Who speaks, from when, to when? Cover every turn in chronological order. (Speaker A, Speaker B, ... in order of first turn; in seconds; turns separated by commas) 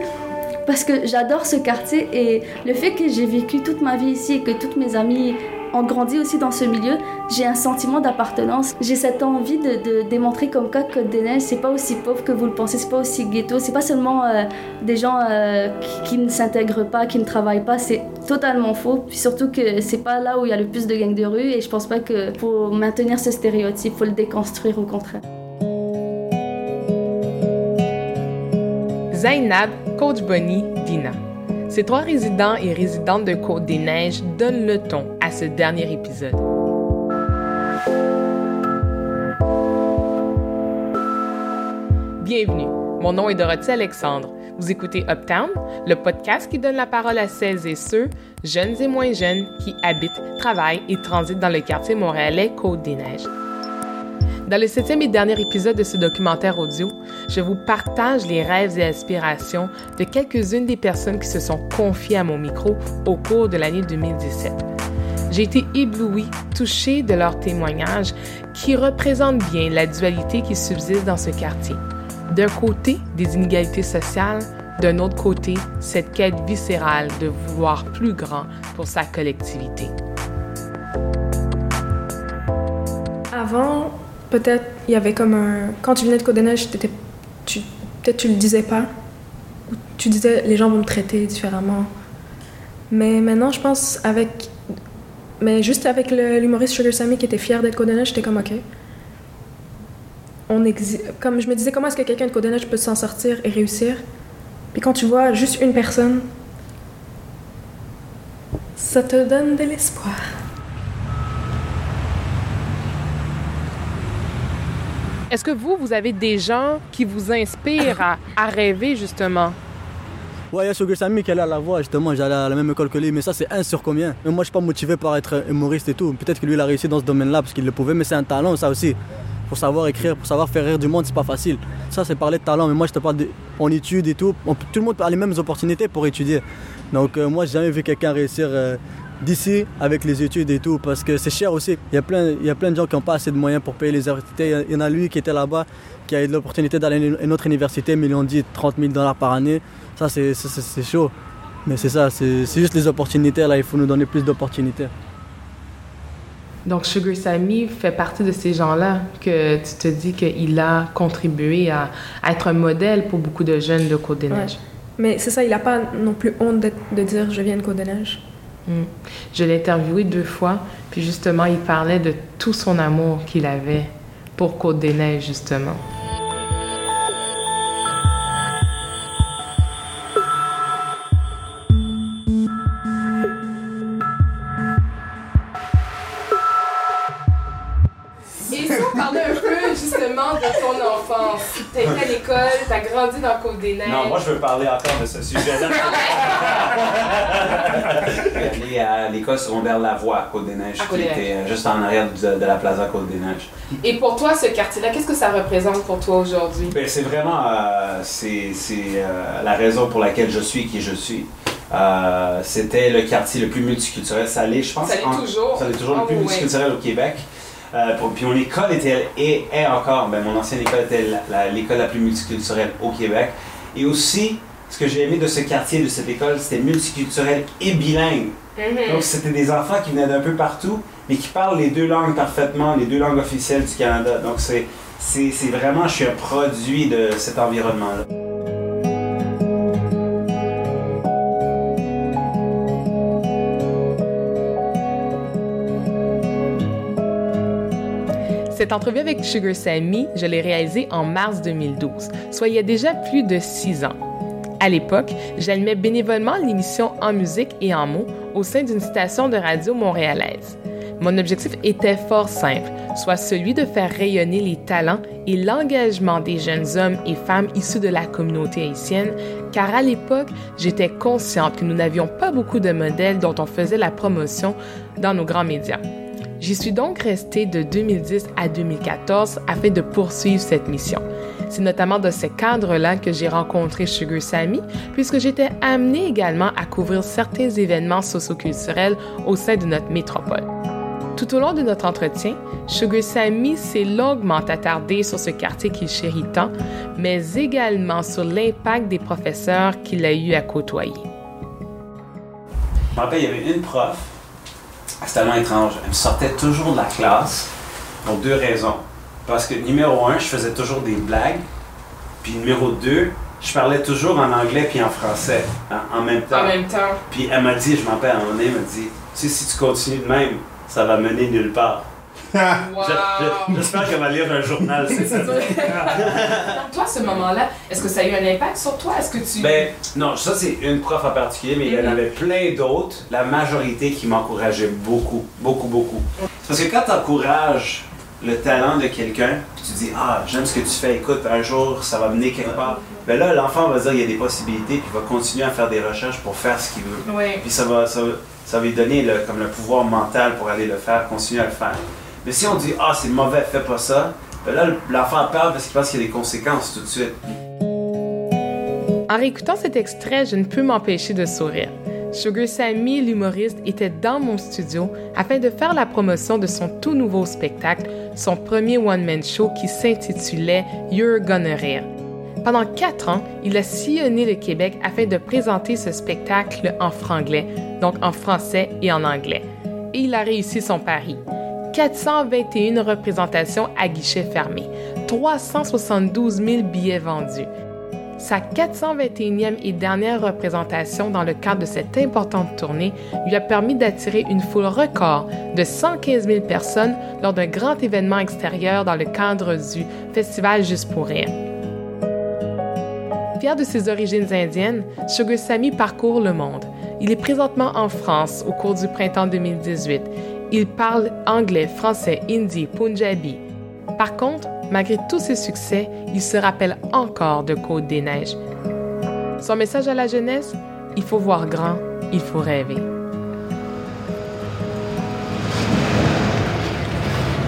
Speaker A: 0.7-25.2, Speaker B: 29.1-36.4, Speaker B: 42.2-53.3, Speaker B: 54.5-64.7, Speaker B: 65.3-79.9, Speaker C: 83.3-86.9, Speaker C: 87.5-88.9, Speaker C: 89.7-91.9, Speaker C: 92.9-94.5, Speaker C: 95.4-98.6, Speaker C: 100.5-104.0, Speaker C: 104.7-106.3, Speaker C: 108.8-110.2, Speaker B: 115.3-119.6, Speaker D: 120.5-151.1, Speaker D: 151.7-154.9, Speaker B: 156.7-164.6, Speaker C: 164.3-168.2, Speaker B: 168.7-175.8, Speaker B: 188.5-194.2, Speaker E: 193.8-203.5, Speaker B: 200.8-201.2, Speaker B: 203.8-206.7, Speaker E: 206.7-238.1, Speaker B: 214.8-216.4, Speaker B: 248.5-254.0, Speaker B: 254.6-275.8, Speaker B: 276.4-290.5, Speaker B: 291.2-301.1, Speaker E: 302.9-304.1, Speaker E: 305.0-307.5, Speaker E: 308.0-311.4, Speaker E: 312.2-327.2, Speaker B: 316.3-316.9, Speaker B: 322.7-323.5, Speaker B: 325.1-325.9, Speaker B: 326.5-329.7, Speaker E: 329.3-357.2, Speaker B: 359.1-371.9, Speaker B: 372.4-387.5, Speaker B: 388.2-401.4, Speaker B: 403.4-413.4, Speaker B: 414.0-418.4, Speaker B: 419.4-422.9